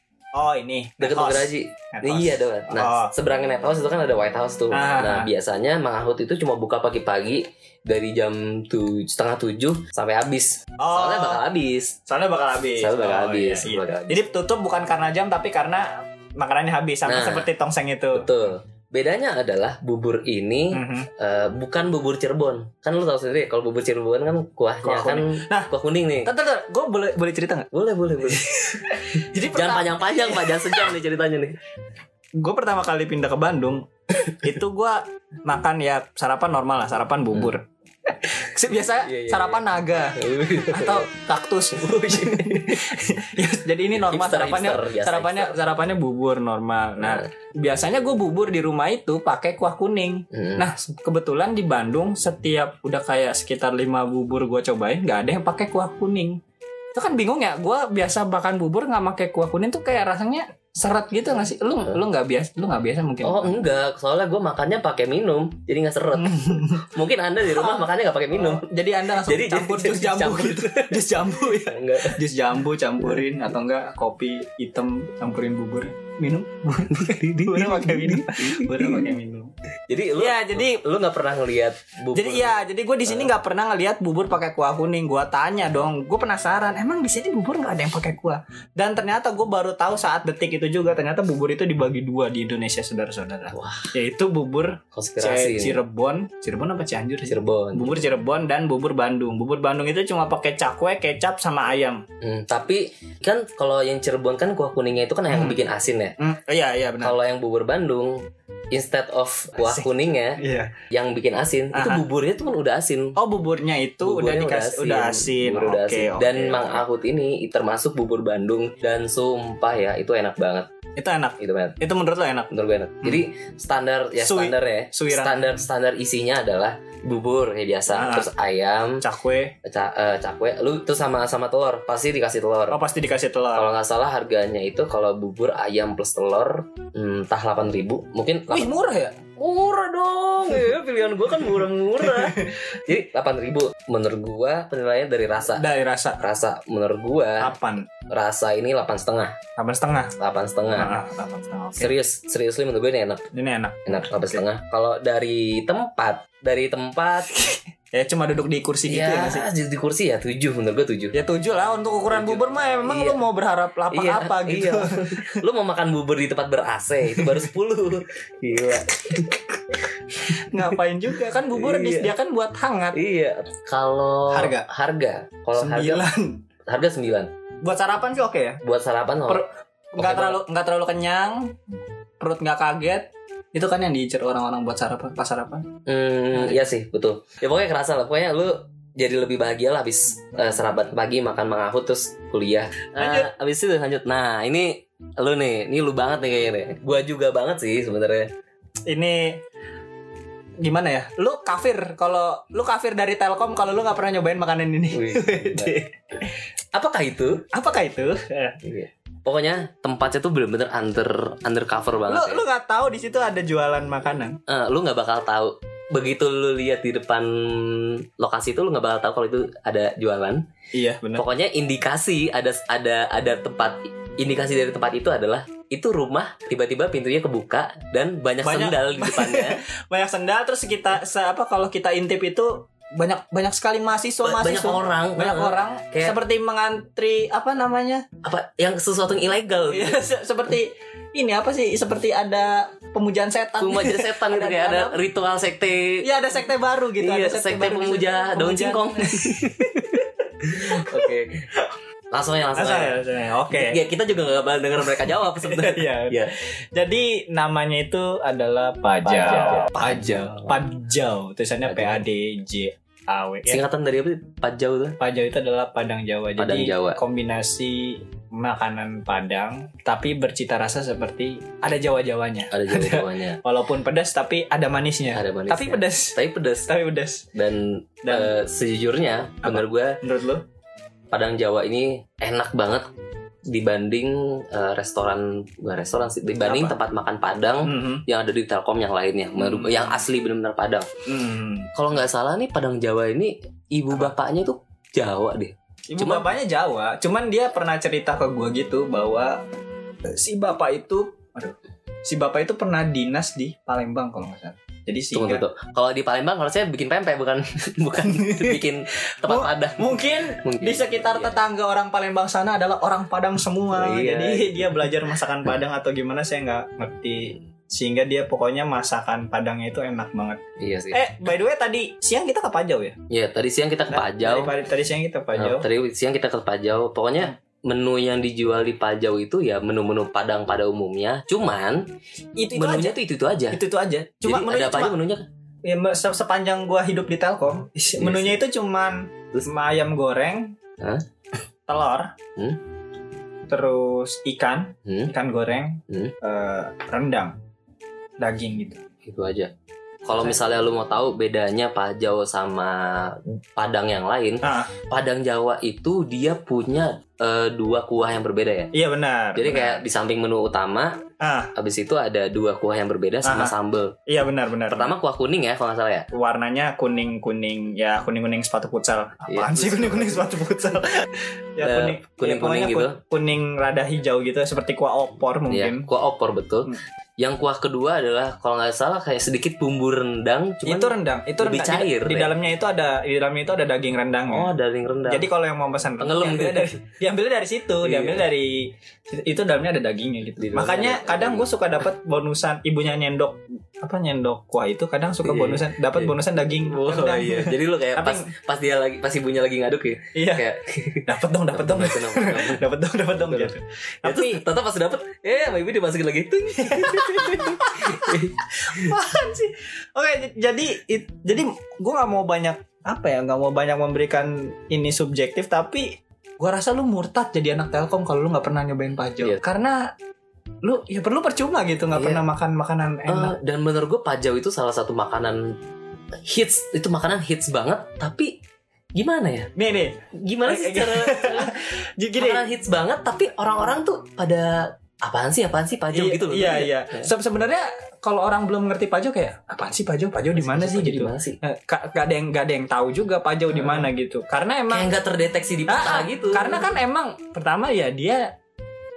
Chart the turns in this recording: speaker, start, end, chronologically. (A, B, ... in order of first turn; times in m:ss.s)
0:00.4-0:03.1 A
0:01.0-0:12.0 B
0:04.7-0:05.3 A
0:10.8-0:11.4 A
0:12.1-0:18.3 A
0:12.8-0:14.2 B
0:17.1-0:17.5 B
0:18.1-0:26.3 B
0:20.7-0:21.1 A
0:24.8-0:25.7 A
0:26.2-0:27.7 A
0:27.7-0:31.6 B
0:28.2-0:30.9 A
0:32.4-0:56.4 A
0:38.7-0:39.6 B
0:40.2-0:41.1 B
0:41.8-0:42.9 B
0:43.9-0:45.6 B
0:47.0-0:47.3 B
0:50.3-0:50.7 B
0:57.0-1:03.6 A
1:03.2-1:08.7 B
1:06.2-1:06.9 A
1:07.5-1:19.5 A
1:09.2-1:12.2 B
1:16.9-1:19.1 B
1:19.9-1:23.3 B
1:20.2-1:20.8 A
1:22.1-1:42.0 A
1:33.5-1:33.9 B
1:34.9-1:35.8 B
1:37.3-1:38.0 B
1:42.2-1:46.2 B
1:45.3-1:45.6 A
1:46.2-1:47.2 A
1:47.0-1:53.2 B
1:49.6-1:50.7 A
1:51.7-1:52.0 A
1:53.2-1:56.8 A
1:54.0-2:00.7 B
2:01.0-2:02.5 A
2:01.4-2:01.8 B
2:02.5-2:09.0 B
2:04.2-2:05.5 A
2:07.9-2:08.3 A
2:09.0-2:09.6 A
2:09.6-2:12.8 B
2:12.7-2:13.7 A
2:13.5-2:18.7 B
2:18.5-2:19.2 A
2:19.4-2:25.7 B
2:22.0-2:22.5 A
2:25.5-2:26.2 A
2:26.2-2:27.5 B
2:27.4-2:27.9 A
2:28.1-2:29.4 B
2:29.6-2:30.2 A
2:30.2-2:31.0 B
2:30.8-2:31.9 A
2:31.8-2:33.3 B
2:33.3-2:34.4 A
2:33.9-2:37.4 B
2:37.4-2:39.5 A
2:38.9-2:41.2 B
2:41.1-2:45.4 A
2:42.1-2:43.2 B
2:43.9-2:50.6 B
2:47.2-2:47.4 A
2:50.2-2:53.0 A
2:51.3-2:52.2 B
2:52.9-2:56.1 B
2:54.3-2:54.7 A
2:55.6-2:56.4 A
2:56.7-2:57.3 B
2:57.6-2:58.6 A
2:58.6-2:59.4 B
2:59.3-3:01.6 A
3:00.0-3:00.4 B
3:02.2-3:05.7 A
3:05.9-3:18.3 B
3:06.3-3:06.6 A
3:13.0-3:13.3 A
3:18.9-3:19.4 A
3:20.6-3:25.9 A
3:24.9-3:25.8 B
3:26.7-3:27.5 B
3:27.5-3:28.6 A
3:28.6-3:32.4 B
3:32.1-3:34.4 A
3:34.5-3:40.4 B
3:40.7-3:41.3 A
3:41.2-3:49.6 B
3:48.4-3:58.1 A
3:54.2-3:56.2 B
3:58.2-4:00.0 B
3:59.7-4:05.0 A
4:03.6-4:06.0 B
4:06.0-4:11.7 A
4:07.0-4:09.9 B
4:10.4-4:11.5 B
4:12.1-4:16.3 B
4:12.6-4:13.8 A
4:14.9-4:23.6 A
4:19.0-4:20.6 B
4:21.7-4:22.0 B
4:23.5-4:25.0 B
4:25.0-4:37.3 A
4:26.4-4:27.0 B
4:32.5-4:33.4 B
4:35.1-4:36.7 B
4:37.3-4:40.0 B
4:38.0-4:38.3 A
4:39.4-4:40.4 A
4:41.1-4:42.9 B
4:43.5-4:50.9 B
4:46.4-4:46.8 A
4:47.6-4:48.0 A
4:49.4-4:50.0 A
4:51.1-4:51.7 A
4:51.8-4:56.3 B
4:55.9-4:59.4 A
5:00.1-5:05.4 A
5:05.1-5:11.4 B
5:08.0-5:08.6 A
5:09.2-5:23.0 A
5:13.7-5:15.0 B
5:20.6-5:21.0 B
5:23.1-5:24.5 B
5:23.9-5:25.7 A
5:25.4-5:31.9 B
5:32.4-5:33.0 A
5:32.5-5:33.6 B
5:33.5-5:35.0 A
5:34.2-5:35.2 B
5:35.6-5:40.6 A
5:38.0-5:38.4 B
5:40.8-5:41.0 B
5:41.7-5:42.2 A
5:43.5-5:47.4 A
5:44.9-5:45.1 B
5:45.9-5:46.1 B
5:48.2-5:48.8 A
5:49.0-5:49.5 B
5:50.0-5:58.7 B
5:54.4-5:54.7 A
5:58.7-5:59.8 A
5:59.4-6:01.0 B
6:01.2-6:01.5 A
6:01.6-6:04.0 B
6:03.2-6:03.5 A
6:04.1-6:04.9 A
6:04.7-6:06.1 B
6:06.1-6:15.9 A
6:09.3-6:10.3 B
6:11.6-6:13.0 B
6:15.5-6:22.4 B
6:20.6-6:24.5 A
6:24.3-6:25.3 B
6:25.1-6:38.3 A
6:26.0-6:26.8 B
6:27.8-6:28.3 B
6:30.4-6:31.5 B
6:35.2-6:42.6 B
6:40.1-6:40.5 A
6:41.0-6:44.4 A
6:43.2-6:49.0 B
6:46.6-6:59.9 A
7:00.6-7:03.4 A
7:02.0-7:02.2 B
7:03.1-7:05.6 B
7:06.2-7:08.4 B
7:09.0-7:09.5 B
7:09.6-7:12.5 A
7:10.1-7:11.6 B
7:12.2-7:17.1 B
7:15.9-7:24.9 A
7:20.4-7:21.4 B
7:23.5-7:23.9 B
7:24.7-7:26.7 B
7:25.7-7:28.3 A